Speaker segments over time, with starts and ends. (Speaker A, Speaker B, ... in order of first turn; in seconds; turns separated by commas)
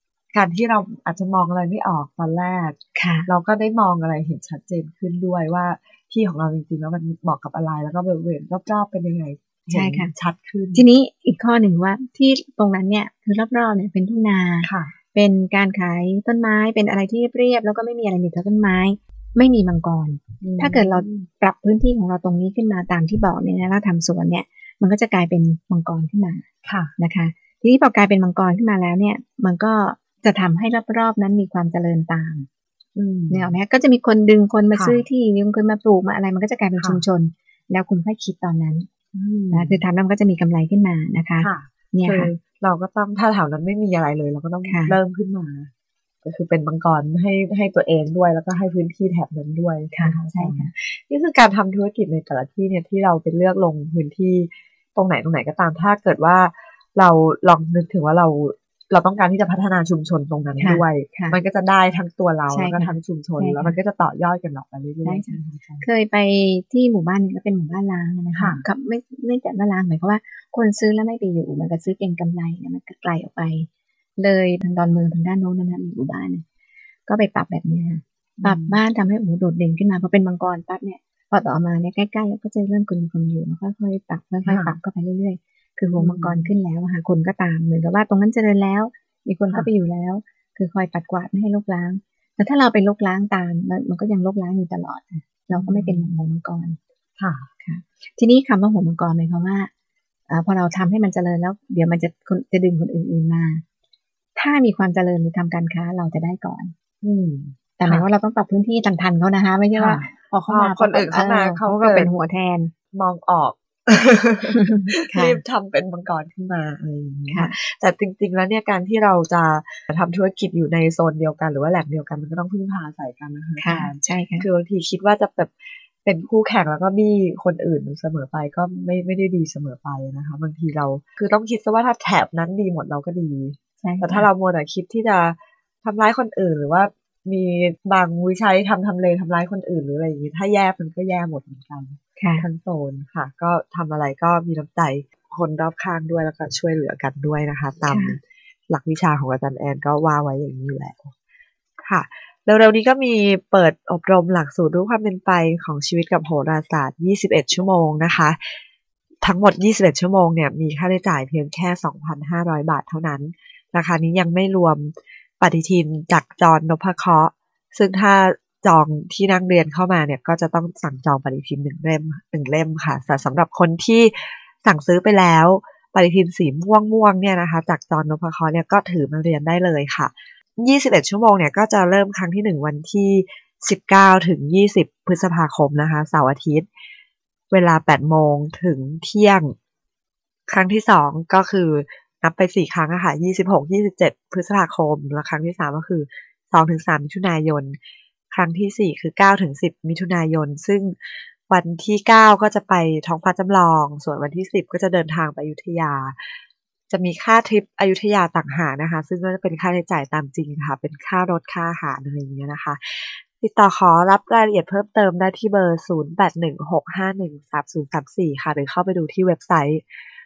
Speaker A: 0.3-10.8, Speaker B: 3.0-3.3, Speaker B: 9.7-10.1, Speaker B: 10.8-26.4, Speaker A: 14.6-14.9, Speaker A: 20.4-21.3, Speaker A: 26.7-26.9, Speaker B: 27.0-32.5, Speaker A: 33.0-33.5, Speaker B: 33.3-38.9, Speaker A: 34.7-35.0, Speaker A: 36.8-37.0, Speaker A: 39.1-39.8, Speaker B: 39.5-42.3, Speaker A: 41.4-45.7, Speaker B: 44.6-45.0, Speaker A: 46.2-65.8, Speaker B: 50.0-50.7, Speaker B: 60.6-61.4, Speaker B: 62.5-63.8, Speaker B: 65.0-76.4, Speaker A: 68.4-68.6, Speaker B: 77.1-96.8, Speaker A: 78.4-78.8, Speaker A: 84.5-84.8, Speaker A: 86.0-86.5, Speaker A: 95.5-96.1, Speaker A: 97.2-97.5, Speaker B: 97.6-99.7, Speaker B: 100.3-103.6, Speaker B: 104.4-106.7, Speaker A: 107.0-108.1, Speaker B: 107.8-112.7, Speaker A: 109.8-112.1, Speaker A: 112.9-125.5, Speaker B: 114.6-115.4, Speaker B: 117.3-117.5, Speaker B: 123.6-124.5, Speaker A: 126.0-151.1, Speaker B: 133.8-134.3, Speaker B: 142.2-142.5, Speaker B: 147.9-148.2, Speaker A: 151.8-158.4, Speaker A: 159.2-186.7, Speaker A: 187.5-189.5, Speaker A: 190.5-197.8, Speaker A: 198.3-206.2, Speaker A: 206.9-219.8